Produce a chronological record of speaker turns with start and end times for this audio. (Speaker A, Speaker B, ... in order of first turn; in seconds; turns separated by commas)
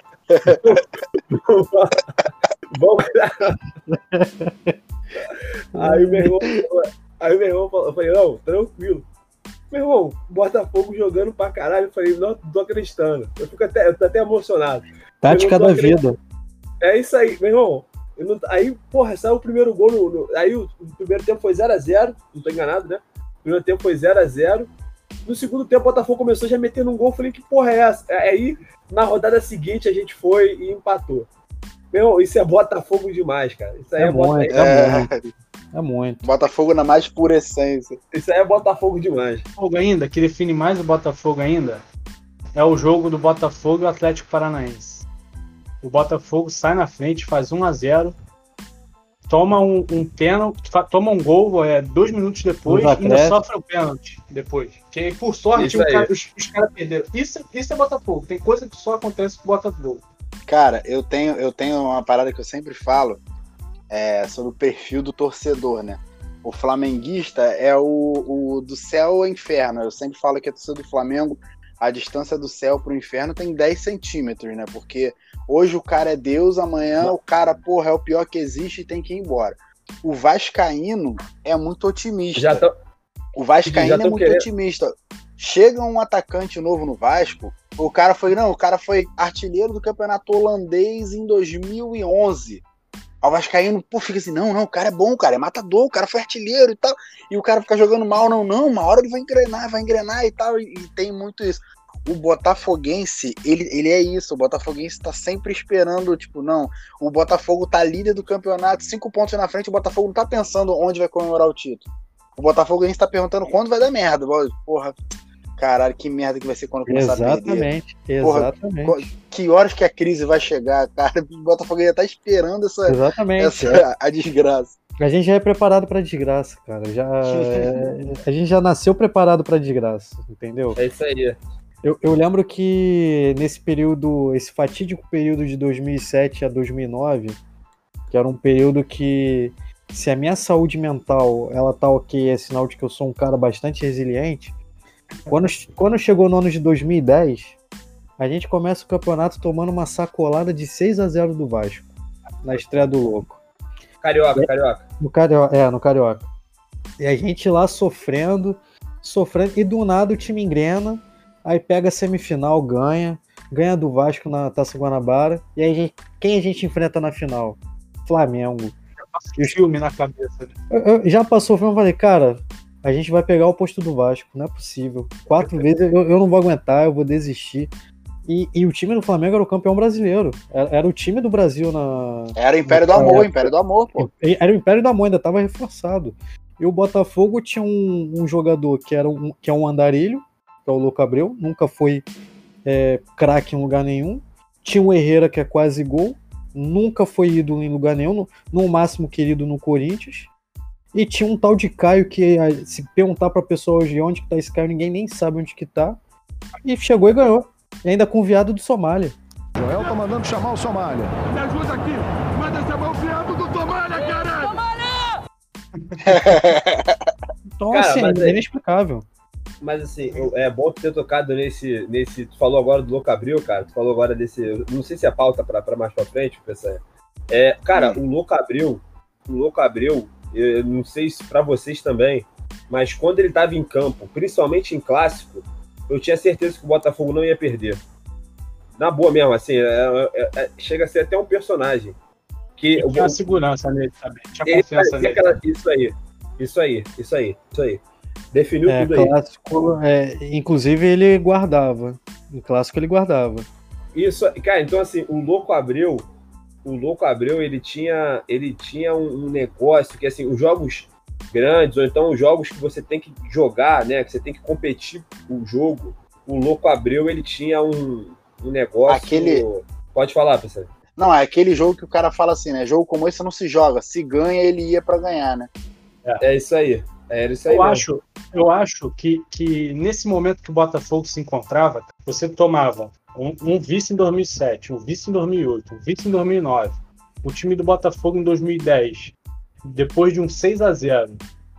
Speaker A: 0.3-0.8, Speaker B: 0.6-2.0, Speaker B: 2.7-3.6, Speaker C: 3.9-4.7, Speaker B: 5.2-9.1, Speaker C: 5.8-6.3, Speaker B: 9.7-16.0, Speaker C: 15.2-16.2, Speaker B: 16.8-24.7, Speaker B: 25.2-31.3, Speaker B: 31.9-34.8, Speaker C: 34.0-36.3, Speaker A: 34.5-35.2, Speaker A: 36.2-38.0, Speaker B: 38.1-39.4, Speaker D: 39.6-41.8, Speaker D: 42.5-45.0, Speaker D: 45.8-48.1, Speaker D: 49.3-60.0, Speaker C: 52.6-53.4, Speaker B: 55.5-56.1, Speaker A: 60.5-63.2, Speaker A: 63.9-82.6, Speaker B: 82.3-82.7, Speaker A: 83.3-92.6, Speaker B: 83.7-84.5, Speaker A: 93.2-111.8, Speaker A: 112.4-115.0, Speaker A: 115.6-117.7, Speaker C: 116.9-119.1, Speaker A: 118.2-124.8, Speaker C: 122.8-123.8, Speaker C: 125.0-130.8, Speaker A: 127.2-127.9, Speaker B: 130.8-131.4, Speaker C: 131.8-137.4, Speaker C: 138.1-144.5, Speaker C: 145.3-147.6, Speaker C: 148.2-151.9, Speaker C: 152.4-153.4, Speaker B: 154.0-154.8, Speaker C: 155.0-156.2, Speaker C: 157.0-168.7, Speaker D: 169.0-170.5, Speaker C: 170.7-177.7, Speaker C: 178.3-192.0, Speaker A: 182.3-184.1, Speaker C: 192.6-200.3, Speaker C: 200.9-206.0, Speaker C: 206.6-209.2, Speaker E: 209.7-211.0, Speaker E: 211.6-211.8, Speaker E: 212.5-214.6, Speaker D: 215.8-216.3, Speaker A: 216.0-217.0, Speaker C: 217.6-219.0, Speaker B: 217.7-218.4, Speaker B: 219.6-237.8, Speaker A: 227.7-228.0, Speaker B: 238.8-241.9, Speaker B: 242.6-243.4, Speaker D: 242.8-245.4, Speaker B: 244.4-247.8, Speaker B: 248.3-249.1, Speaker C: 248.7-253.4, Speaker B: 253.9-256.1, Speaker B: 256.6-270.7, Speaker A: 268.9-269.4, Speaker A: 271.0-275.5, Speaker B: 276.2-277.8, Speaker D: 277.5-289.1, Speaker D: 289.7-291.2